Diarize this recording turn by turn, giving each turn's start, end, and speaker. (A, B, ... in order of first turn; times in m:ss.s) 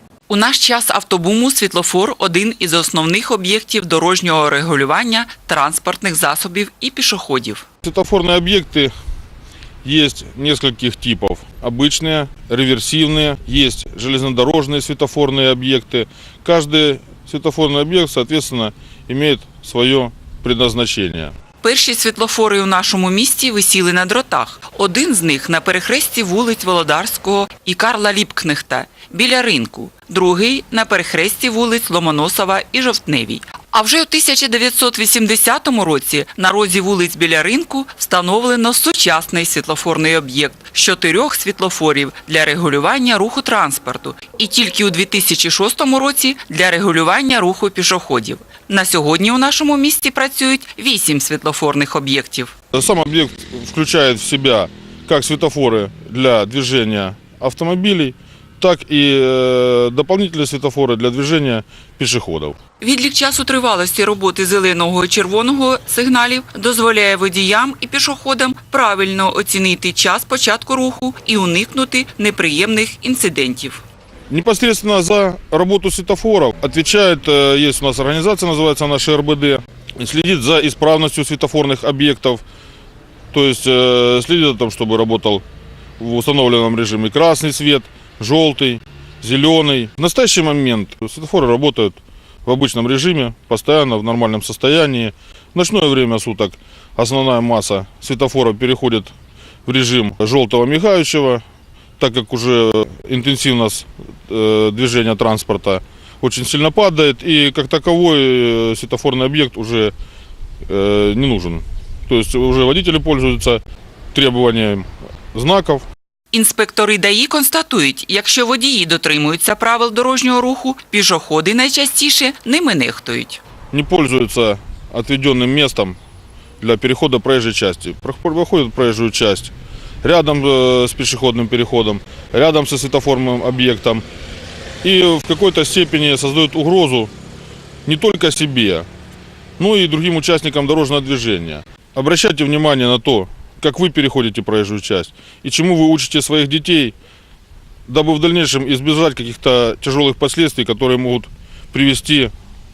0:00.3-0:07.7 A
0:07.8-0:08.9 B
0:09.8-0:21.3 B
0:21.6-0:52.5 A
0:52.7-1:02.6 B
1:02.8-1:13.8 A
1:14.3-1:22.4 B
1:23.3-1:25.4 B
1:26.0-1:39.1 B
1:39.7-1:41.4 B
1:42.0-1:49.9 B
1:50.7-1:53.6 B
1:54.1-1:55.9 B
1:56.3-2:03.4 A
2:03.7-2:06.0 B
2:06.6-2:09.5 B
2:10.0-2:14.0 B
2:14.8-2:17.1 B
2:17.9-2:18.9 B
2:19.6-2:27.0 B
2:27.9-2:32.3 B